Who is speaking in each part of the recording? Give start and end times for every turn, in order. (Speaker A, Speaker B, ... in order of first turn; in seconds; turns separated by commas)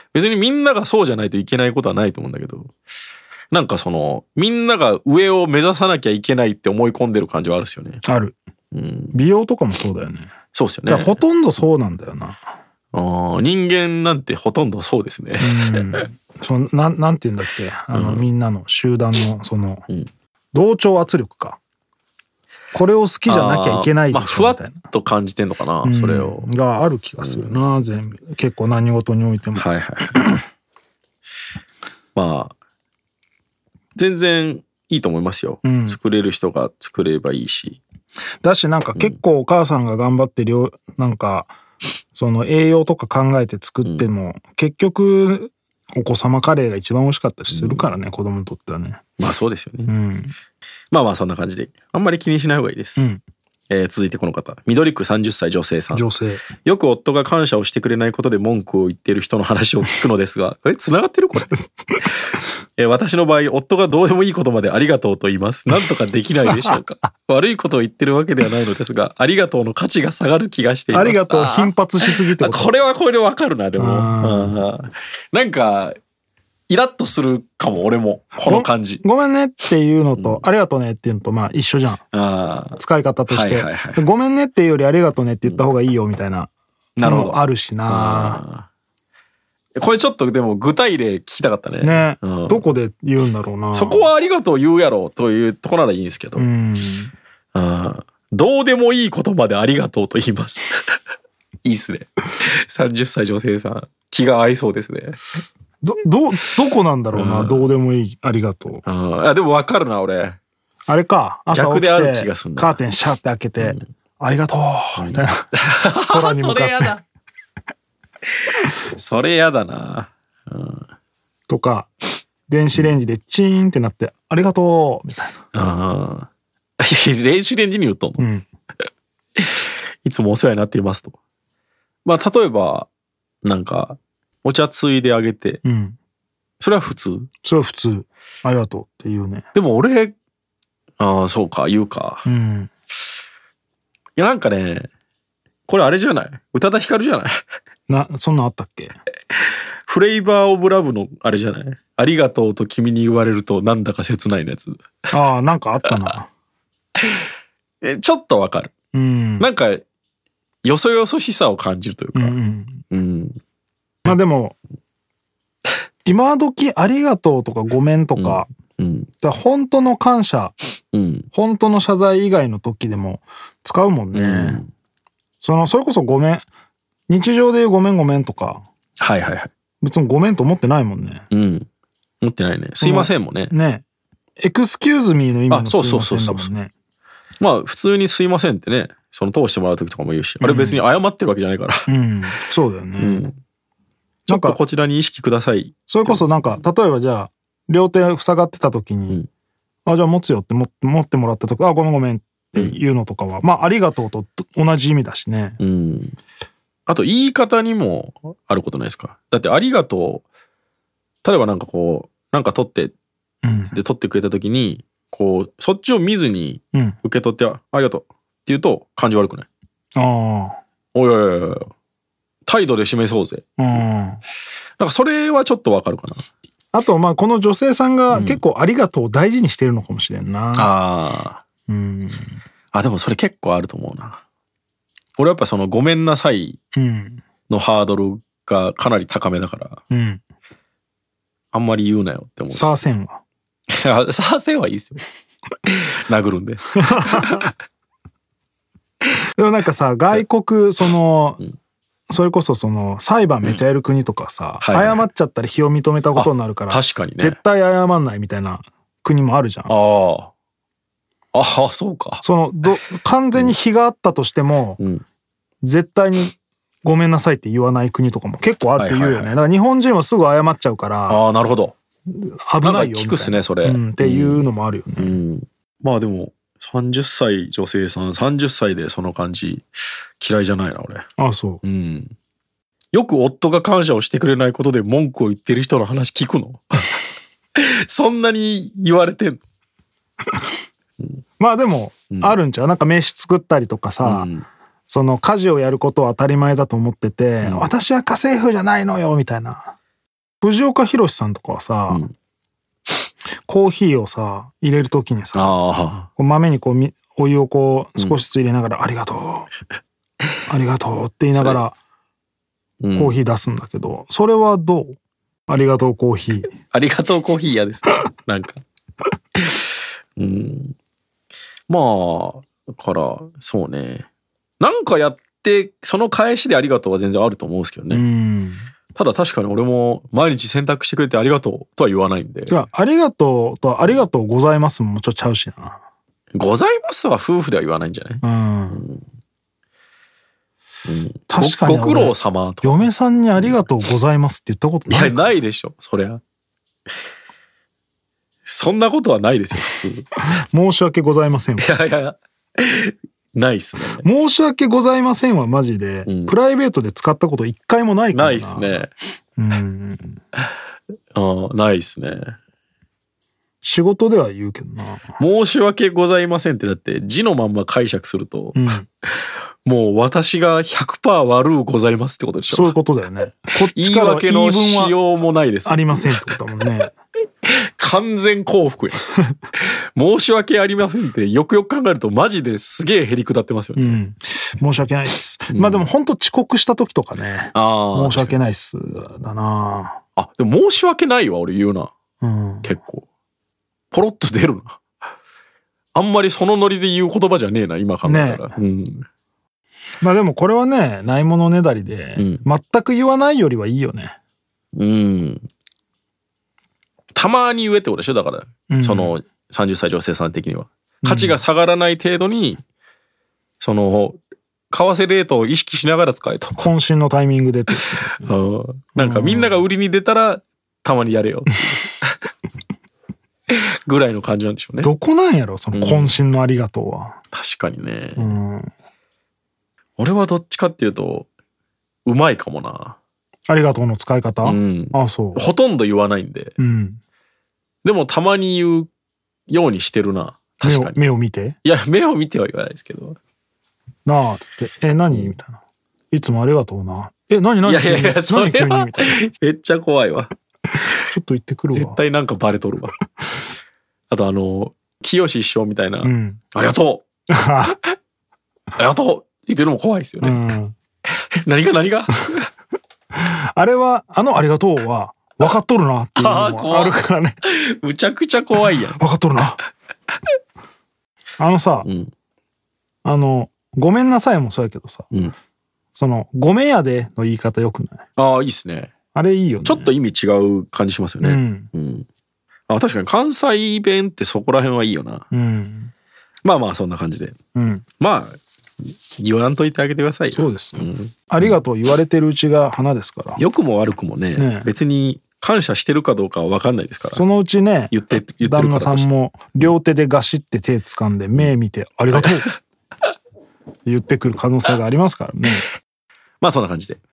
Speaker A: 0.1-2.7, Speaker A: 3.5-8.0, Speaker B: 8.0-8.4, Speaker A: 8.7-9.2, Speaker B: 9.1-10.3, Speaker A: 10.5-11.2, Speaker B: 10.9-12.4, Speaker A: 12.9-16.0, Speaker B: 15.4-19.9, Speaker A: 17.9-18.3, Speaker B: 20.5-21.6, Speaker B: 22.7-24.8, Speaker A: 23.3-26.5, Speaker B: 25.8-30.2, Speaker A: 27.2-27.6, Speaker A: 29.6-30.3, Speaker A: 32.1-32.5, Speaker A: 34.0-37.8, Speaker B: 35.6-36.0, Speaker B: 38.4-41.5, Speaker B: 42.1-49.0, Speaker A: 47.5-47.9, Speaker A: 49.2-49.9, Speaker B: 49.9-50.4, Speaker A: 50.9-53.1, Speaker A: 53.7-56.1, Speaker B: 55.9-56.5, Speaker A: 56.6-61.5, Speaker A: 62.8-76.0, Speaker B: 66.5-66.8, Speaker B: 70.9-72.7, Speaker B: 73.8-74.6, Speaker A: 76.7-79.0, Speaker B: 78.5-82.0, Speaker A: 80.2-80.5, Speaker A: 82.1-84.0, Speaker B: 82.8-86.5, Speaker A: 87.0-88.7, Speaker B: 87.0-88.4, Speaker A: 89.8-92.7, Speaker B: 91.8-94.1, Speaker A: 93.7-96.5, Speaker B: 96.4-97.1, Speaker A: 97.5-101.0, Speaker A: 101.6-105.3, Speaker B: 105.8-108.8, Speaker A: 107.1-107.7, Speaker A: 108.8-110.4, Speaker B: 110.9-117.0, Speaker A: 111.5-112.8, Speaker A: 115.0-117.0, Speaker A: 118.8-120.8, Speaker B: 121.5-121.9, Speaker B: 122.5-125.4, Speaker A: 125.5-126.3, Speaker A: 126.8-128.2, Speaker B: 128.2-128.5, Speaker A: 129.4-131.2, Speaker A: 132.1-132.9, Speaker A: 133.4-135.6, Speaker B: 135.6-136.0, Speaker A: 136.6-137.3, Speaker B: 137.4-139.5, Speaker A: 139.6-140.2, Speaker A: 141.0-142.3, Speaker B: 142.2-142.7, Speaker A: 144.2-144.9, Speaker A: 145.7-147.4, Speaker B: 147.9-149.0, Speaker A: 149.9-154.8, Speaker B: 155.1-156.3, Speaker A: 157.8-158.7, Speaker B: 158.9-159.5, Speaker A: 159.4-159.8, Speaker A: 160.6-162.4, Speaker B: 162.2-162.8, Speaker A: 162.9-163.4, Speaker B: 164.1-164.6, Speaker B: 166.1-168.5, Speaker A: 168.2-169.1, Speaker B: 169.2-170.6, Speaker A: 170.9-171.3, Speaker B: 171.3-174.6, Speaker A: 174.1-174.7, Speaker B: 175.4-176.5, Speaker B: 177.1-178.6, Speaker A: 179.0-179.5, Speaker B: 179.8-181.2, Speaker A: 181.3-181.7, Speaker A: 182.2-183.5, Speaker B: 182.8-183.8, Speaker B: 184.4-186.7, Speaker A: 185.5-186.5, Speaker A: 187.4-191.9, Speaker B: 190.4-190.8, Speaker B: 191.9-193.3, Speaker A: 193.0-193.4, Speaker B: 194.3-194.6, Speaker A: 194.3-196.6, Speaker B: 195.9-199.2, Speaker B: 199.9-205.6, Speaker A: 205.6-206.2, Speaker A: 206.9-210.2, Speaker A: 211.2-212.9, Speaker B: 213.4-213.7, Speaker A: 213.7-219.5, Speaker B: 220.0-220.6, Speaker A: 220.9-221.7, Speaker A: 222.5-223.4, Speaker B: 223.6-224.2, Speaker A: 224.8-226.2, Speaker B: 226.7-230.7, Speaker A: 228.1-228.4, Speaker A: 230.6-231.4, Speaker B: 231.7-232.4, Speaker A: 232.7-234.2, Speaker A: 235.2-236.6, Speaker B: 236.7-237.2, Speaker A: 237.5-239.8, Speaker B: 239.9-240.2, Speaker A: 241.5-242.8, Speaker B: 242.5-243.2, Speaker A: 243.7-245.0, Speaker A: 245.7-247.5, Speaker B: 246.8-247.4, Speaker B: 249.4-251.4, Speaker B: 252.1-259.8, Speaker A: 254.6-255.0, Speaker A: 256.1-257.4, Speaker A: 259.7-260.3, Speaker A: 261.3-262.2, Speaker B: 262.2-264.8, Speaker A: 264.8-265.0, Speaker B: 265.6-271.2, Speaker A: 268.8-269.3, Speaker A: 271.1-271.8, Speaker B: 272.1-275.2, Speaker A: 272.6-274.4, Speaker A: 275.0-279.7, Speaker A: 280.2-281.0, Speaker B: 281.2-281.6, Speaker A: 281.6-282.1, Speaker A: 282.9-289.4, Speaker B: 291.4-294.3, Speaker A: 294.0-294.5, Speaker B: 294.9-299.7, Speaker A: 297.4-297.7, Speaker B: 300.4-302.0, Speaker B: 303.5-305.6, Speaker A: 305.4-306.1, Speaker B: 306.2-309.5, Speaker B: 310.5-311.8, Speaker A: 311.3-311.6, Speaker A: 312.8-313.2, Speaker B: 313.0-315.0, Speaker B: 315.5-316.5, Speaker A: 316.7-318.6, Speaker A: 319.4-319.6, Speaker A: 320.2-320.8, Speaker A: 321.7-324.1, Speaker A: 324.6-328.0, Speaker B: 327.9-328.7, Speaker A: 328.9-332.6, Speaker B: 332.5-335.8, Speaker A: 336.4-339.0, Speaker B: 338.2-338.8, Speaker A: 340.9-343.6, Speaker B: 341.3-345.3, Speaker A: 344.9-346.2, Speaker A: 348.5-350.1, Speaker B: 350.4-351.7, Speaker A: 351.6-354.0, Speaker B: 354.0-358.8, Speaker A: 356.1-356.3, Speaker A: 358.1-358.9, Speaker B: 359.4-360.2, Speaker A: 361.1-362.4, Speaker B: 363.6-365.1, Speaker A: 365.2-368.7, Speaker B: 368.6-368.9, Speaker A: 369.6-372.7, Speaker B: 372.5-375.0, Speaker A: 373.6-376.1, Speaker B: 375.6-376.9, Speaker A: 377.4-379.1, Speaker A: 379.6-384.0, Speaker B: 383.8-390.0, Speaker A: 385.5-385.9, Speaker A: 387.5-388.4, Speaker A: 390.2-391.9, Speaker B: 392.2-392.8, Speaker A: 392.6-393.1, Speaker A: 393.9-394.8, Speaker A: 395.9-399.1, Speaker B: 398.0-398.5, Speaker B: 400.0-404.2, Speaker A: 402.2-402.4, Speaker A: 404.8-405.5, Speaker A: 407.1-412.6, Speaker B: 408.7-409.1, Speaker B: 411.0-411.4, Speaker A: 413.6-414.2, Speaker A: 414.7-416.6, Speaker B: 416.6-418.3, Speaker A: 418.2-422.2, Speaker B: 419.0-419.6, Speaker A: 423.5-424.9, Speaker B: 424.8-427.2, Speaker A: 425.7-426.1, Speaker A: 427.3-428.4, Speaker B: 428.2-428.7, Speaker A: 430.0-431.3, Speaker A: 432.1-433.0, Speaker B: 433.5-435.5, Speaker A: 434.4-436.5, Speaker B: 436.6-437.0, Speaker A: 437.8-438.9, Speaker A: 439.5-441.0, Speaker B: 440.6-441.6, Speaker A: 441.6-443.2, Speaker B: 444.1-449.2, Speaker A: 447.6-450.3, Speaker B: 450.8-452.0, Speaker A: 451.7-452.9, Speaker A: 454.1-457.1, Speaker B: 456.0-456.4, Speaker B: 457.3-457.8, Speaker A: 458.8-460.4, Speaker B: 460.2-460.8, Speaker A: 461.4-462.5, Speaker B: 463.2-467.4, Speaker A: 466.2-469.0, Speaker B: 468.9-469.6, Speaker B: 471.4-471.9, Speaker A: 471.8-472.1, Speaker B: 473.0-475.1, Speaker B: 475.9-478.0, Speaker A: 478.2-478.9, Speaker B: 479.1-479.9, Speaker A: 479.6-482.1, Speaker B: 481.2-481.7, Speaker A: 482.7-485.3, Speaker B: 485.3-485.9, Speaker A: 486.4-487.4, Speaker B: 487.6-487.9, Speaker A: 488.0-491.6, Speaker B: 490.3-493.4, Speaker A: 493.4-497.2, Speaker B: 494.4-494.7, Speaker B: 497.1-497.9, Speaker A: 497.9-499.1, Speaker B: 498.4-502.5, Speaker A: 502.1-502.4, Speaker B: 503.9-505.7, Speaker A: 506.4-507.0